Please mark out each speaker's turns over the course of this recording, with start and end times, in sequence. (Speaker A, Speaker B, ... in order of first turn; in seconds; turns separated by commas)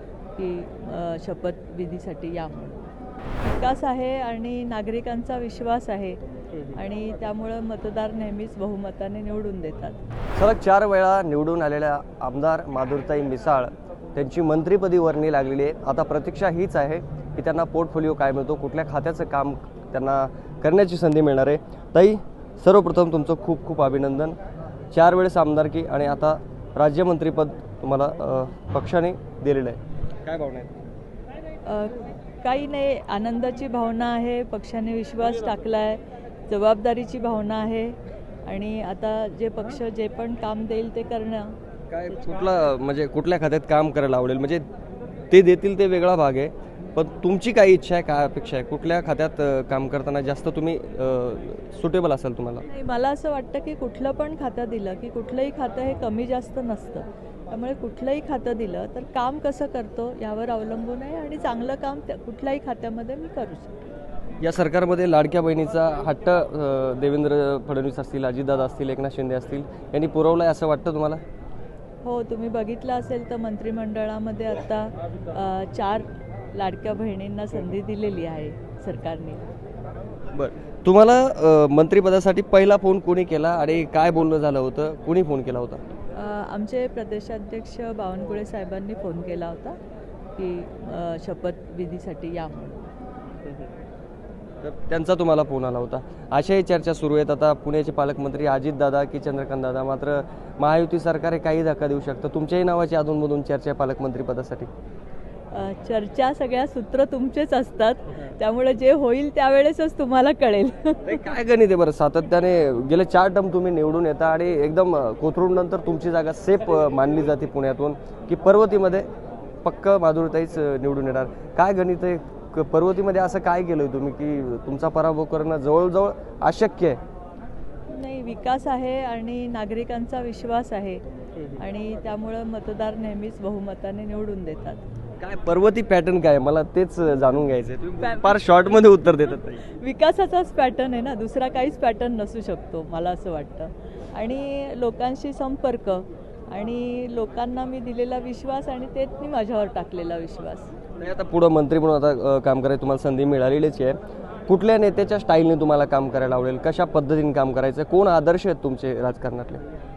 Speaker A: 0.3-10.0, Speaker B: 10.3-24.4, Speaker B: 24.9-30.7, Speaker A: 31.6-41.5, Speaker B: 41.9-44.6, Speaker B: 45.3-52.6, Speaker A: 52.6-63.8, Speaker B: 64.4-71.2, Speaker A: 72.0-79.4, Speaker B: 80.3-85.8, Speaker A: 86.1-89.8, Speaker A: 90.3-92.9, Speaker B: 94.6-104.7, Speaker A: 105.5-111.2, Speaker B: 111.0-119.1, Speaker B: 119.6-127.0, Speaker A: 127.9-134.8, Speaker B: 135.2-139.6, Speaker A: 139.6-150.7, Speaker B: 151.0-159.6